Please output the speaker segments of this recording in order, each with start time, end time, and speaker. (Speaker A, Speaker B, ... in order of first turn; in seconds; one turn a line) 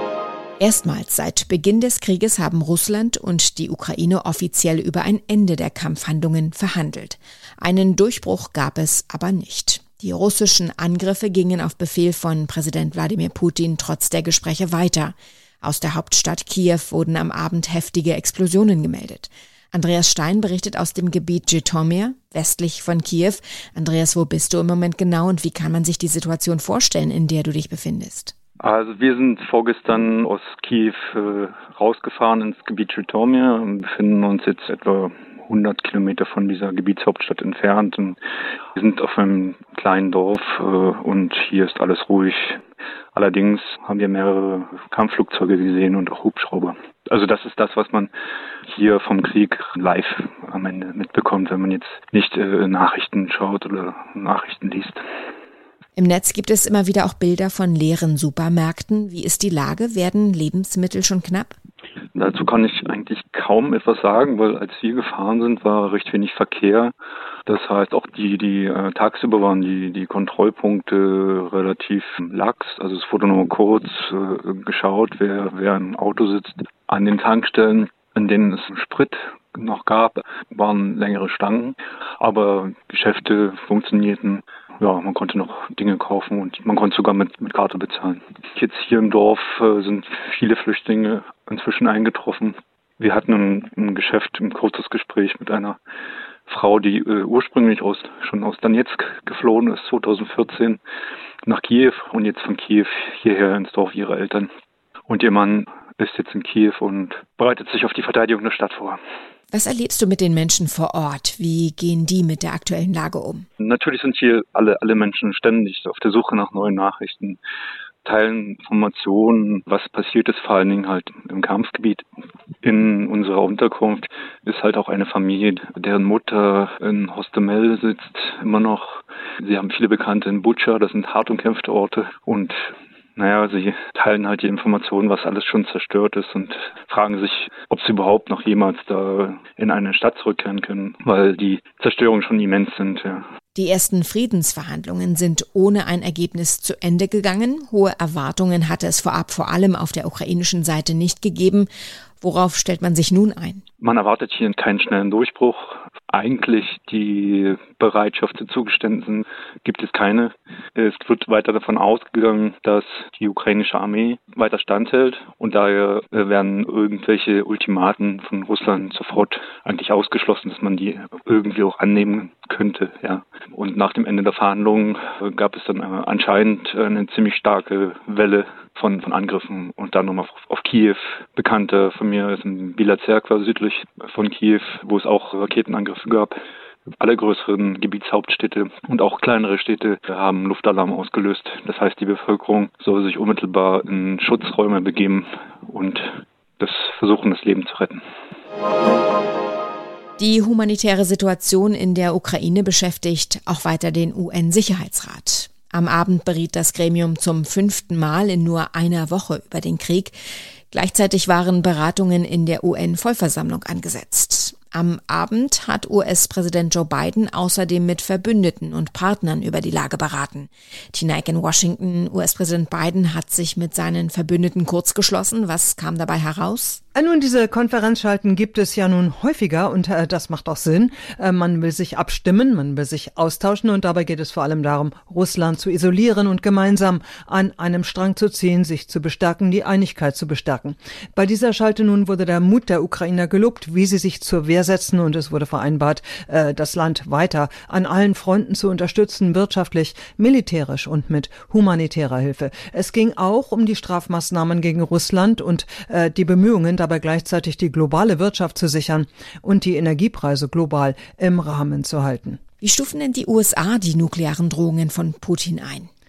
Speaker A: 0.6-28.4
Speaker B: 28.6-38.2
Speaker B: 38.8-42.6
Speaker B: 43.1-48.1
Speaker B: 48.7-55.0
Speaker A: 56.0-61.6
Speaker B: 62.1-66.9
Speaker B: 67.5-95.8
Speaker B: 96.5-100.8
Speaker B: 101.5-104.5
Speaker B: 105.1-109.0
Speaker A: 109.5-113.5
Speaker B: 113.6-117.4
Speaker B: 118.0-122.0
Speaker B: 122.6-132.6
Speaker B: 133.2-143.2
Speaker A: 143.6-151.7
Speaker A: 152.2-153.6
Speaker B: 153.8-186.3
Speaker B: 187.0-198.0
Speaker A: 200.2-210.2
Speaker A: 210.7-226.8
Speaker C: 227.0-262.4
Speaker A: 262.6-265.9